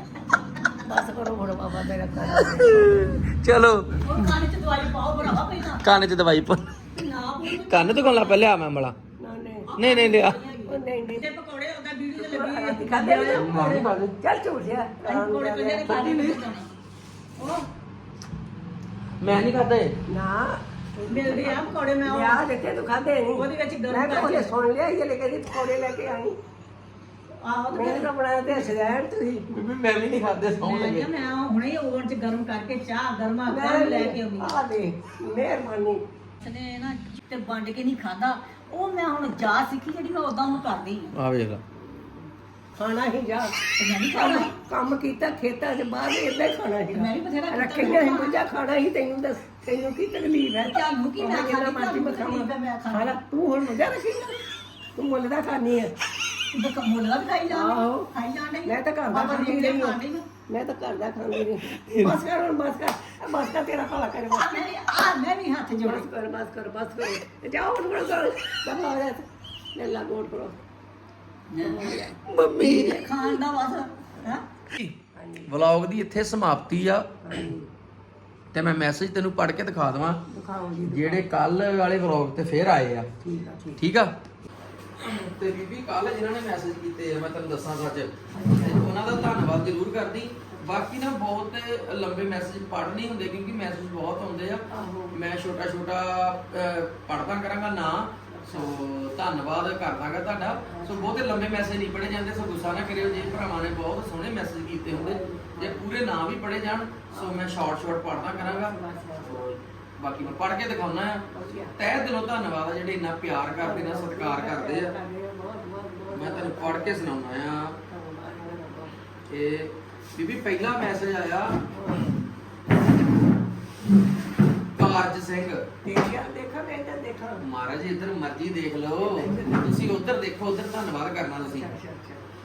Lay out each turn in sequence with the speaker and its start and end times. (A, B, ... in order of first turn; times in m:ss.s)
0:00.8-0:03.1 A
0:02.3-0:04.3 B
0:04.0-0:05.8 C
0:05.8-0:06.7 B
0:06.9-0:08.4 C
0:07.6-0:08.9 B
0:09.2-0:09.7 A
0:09.7-0:13.8 C
0:09.8-0:10.4 B
0:10.7-0:11.3 A
0:12.2-0:15.9 A
0:13.3-0:14.1 B
0:15.0-0:16.7 C
0:15.8-0:16.4 B
0:17.4-0:17.7 C
0:19.2-0:20.0 B
0:20.1-0:26.4 A
0:21.1-0:22.4 C
0:23.4-0:24.5 C
0:27.4-0:28.7 C
0:27.7-0:29.6 A
0:29.5-0:31.1 B
0:30.6-0:34.6 C
0:33.5-0:36.0 A
0:36.4-0:41.1 C
0:41.1-0:41.6 B
0:41.7-0:43.6 A
0:43.8-0:44.5 C
0:44.1-0:55.9 A
0:46.9-0:48.4 C
0:50.6-0:53.2 C
0:56.5-1:00.3 C
0:57.5-0:58.1 A
0:58.6-1:04.7 A
1:01.7-1:02.2 B
1:04.3-1:06.0 C
1:05.8-1:10.6 A
1:11.5-1:12.1 C
1:11.5-1:12.2 A
1:12.2-1:13.0 B
1:12.6-1:14.4 C
1:14.7-1:17.2 B
1:15.1-1:15.5 A
1:17.2-1:17.7 A
1:18.5-1:20.2 B
1:20.3-1:21.3 A
1:20.8-1:23.1 B
1:23.2-1:23.8 A
1:23.8-1:24.1 B
1:25.0-1:54.9 B
1:28.3-1:29.2 A
1:30.5-1:30.8 A
1:34.7-1:35.2 A
1:38.3-1:38.8 A
1:40.6-1:41.2 A
1:44.9-1:45.9 A
1:47.1-1:49.4 A
1:51.3-1:51.8 A
1:53.6-1:57.1 A
1:56.1-1:57.8 B
1:57.8-1:59.0 A
1:59.3-2:01.6 B
2:01.7-2:02.2 A
2:04.8-2:05.8 B
2:05.8-2:07.4 A
2:07.4-2:11.7 B
2:09.0-2:09.9 A
2:11.4-2:12.3 A